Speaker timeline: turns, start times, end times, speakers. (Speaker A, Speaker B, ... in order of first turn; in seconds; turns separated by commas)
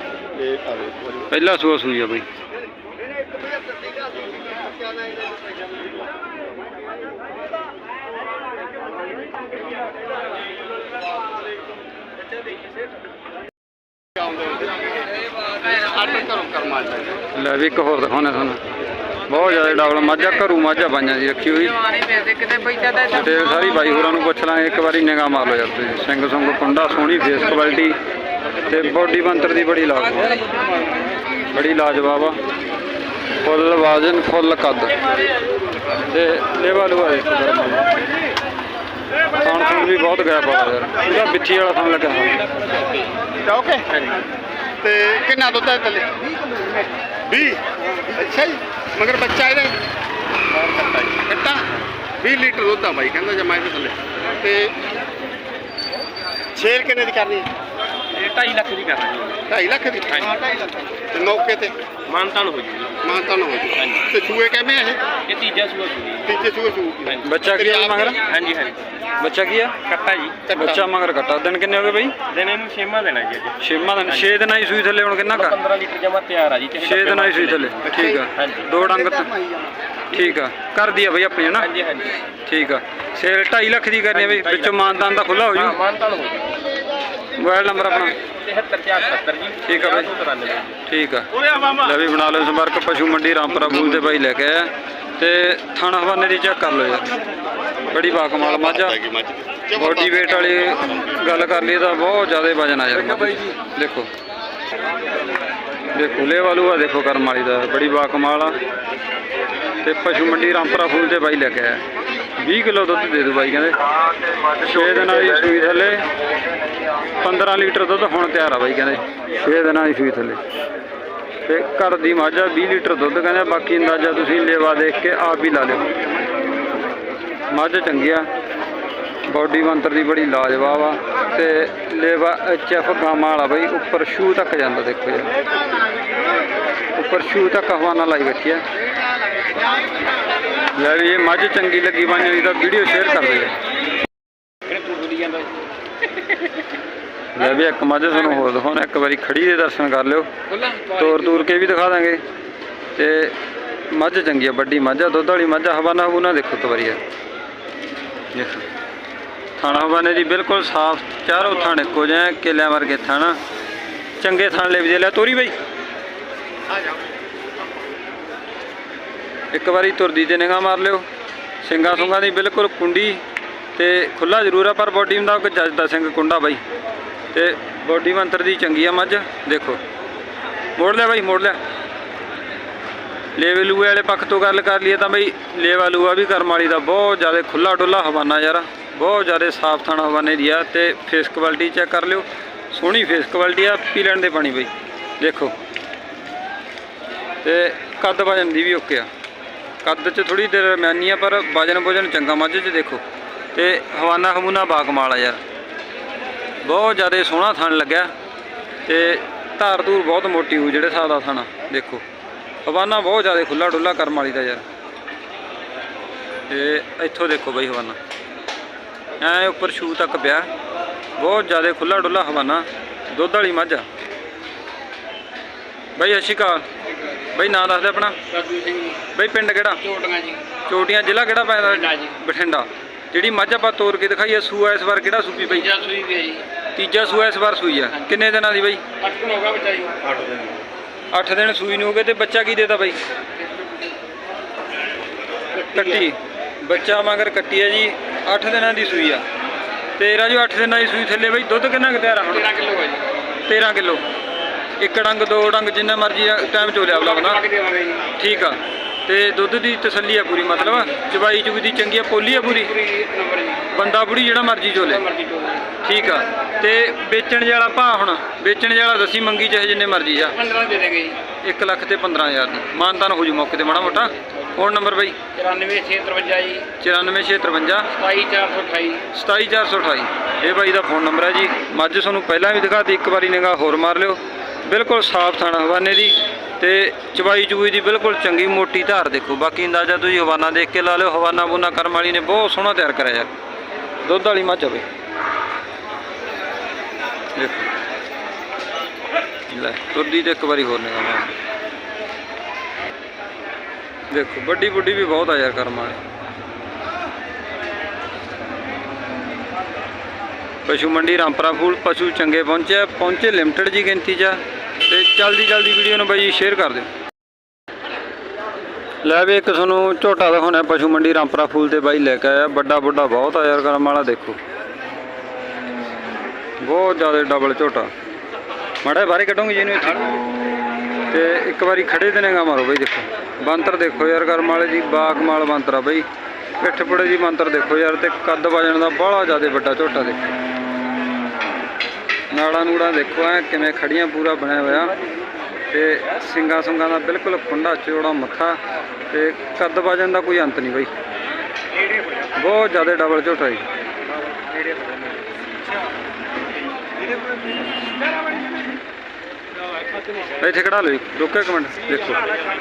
Speaker A: 0.3-1.3, Speaker B: 1.3-2.2, Speaker A: 14.2-14.8, Speaker A: 15.6-17.2, Speaker B: 17.3-18.6, Speaker B: 19.3-21.8, Speaker B: 22.9-28.0, Speaker B: 28.6-30.4, Speaker B: 31.5-32.4, Speaker B: 33.4-35.0, Speaker B: 36.0-37.9, Speaker B: 39.4-42.4, Speaker A: 43.4-43.9, Speaker A: 44.8-46.1, Speaker A: 47.2-49.7, Speaker A: 50.8-51.6, Speaker A: 52.2-54.8, Speaker A: 56.5-57.5, Speaker C: 58.1-59.4, Speaker A: 59.5-60.4, Speaker A: 61.1-61.7, Speaker C: 62.0-63.0, Speaker A: 63.0-65.0, Speaker C: 65.3-66.3, Speaker A: 66.2-68.2, Speaker B: 67.2-68.2, Speaker C: 68.2-68.8, Speaker B: 69.2-69.7, Speaker C: 69.8-70.4, Speaker A: 70.5-70.8, Speaker B: 70.5-72.1, Speaker C: 72.3-73.5, Speaker B: 73.6-75.6, Speaker C: 75.3-77.7, Speaker B: 76.7-79.3, Speaker A: 77.9-78.2, Speaker C: 78.3-78.6, Speaker B: 80.1-81.8, Speaker C: 81.6-82.2, Speaker B: 82.4-85.8, Speaker C: 84.1-84.7, Speaker C: 85.6-86.6, Speaker B: 87.3-88.2, Speaker C: 88.3-90.8, Speaker B: 89.6-90.1, Speaker B: 90.8-97.1, Speaker B: 97.9-99.0, Speaker A: 98.3-101.0, Speaker B: 99.7-104.1, Speaker B: 105.9-108.5, Speaker B: 109.8-111.8, Speaker B: 112.4-113.8, Speaker B: 114.6-116.0, Speaker B: 117.2-120.4, Speaker B: 121.5-125.9, Speaker B: 127.5-128.3, Speaker B: 129.3-135.3, Speaker B: 136.9-138.6, Speaker B: 140.7-143.5, Speaker C: 144.7-145.5, Speaker B: 147.3-150.3, Speaker C: 150.5-151.4, Speaker B: 150.9-152.2, Speaker B: 152.9-153.3, Speaker B: 153.9-157.0, Speaker B: 158.3-158.7, Speaker B: 159.6-163.4, Speaker B: 164.2-165.5, Speaker B: 169.5-171.1, Speaker B: 171.6-173.2, Speaker B: 173.7-176.6, Speaker B: 177.3-179.8, Speaker B: 180.8-181.6, Speaker B: 183.3-195.5, Speaker B: 197.4-199.1, Speaker B: 199.8-203.0, Speaker B: 203.5-205.4, Speaker B: 206.6-208.1, Speaker B: 208.8-212.0, Speaker B: 212.6-214.6, Speaker B: 216.5-218.0, Speaker B: 219.2-220.5, Speaker B: 221.2-223.8, Speaker B: 225.9-226.6, Speaker B: 227.3-228.2, Speaker C: 228.3-229.0, Speaker B: 229.1-229.8, Speaker C: 229.9-230.4, Speaker B: 230.7-235.7, Speaker C: 235.9-236.4, Speaker B: 236.7-238.8, Speaker C: 239.0-239.9, Speaker B: 241.1-243.0, Speaker B: 245.7-249.2, Speaker B: 250.0-252.6, Speaker C: 252.7-253.0, Speaker B: 253.4-254.0, Speaker B: 254.8-257.5, Speaker C: 257.5-258.0, Speaker B: 258.1-262.8, Speaker C: 262.8-263.6, Speaker B: 263.6-265.1, Speaker C: 265.1-265.6, Speaker B: 265.8-270.4, Speaker C: 270.4-271.2, Speaker B: 271.4-275.2, Speaker C: 275.3-276.7, Speaker B: 276.8-277.9, Speaker C: 277.9-279.0, Speaker B: 279.1-293.3, Speaker B: 294.0-294.8, Speaker B: 297.4-297.7, Speaker B: 299.5-301.3, Speaker B: 304.1-306.0, Speaker B: 310.6-316.9, Speaker B: 319.0-324.4, Speaker B: 326.6-327.9, Speaker B: 328.8-330.1, Speaker B: 331.1-336.0, Speaker B: 336.6-340.3, Speaker B: 342.3-344.9, Speaker B: 345.7-348.6, Speaker B: 349.1-350.9, Speaker B: 352.4-353.6, Speaker B: 360.4-362.2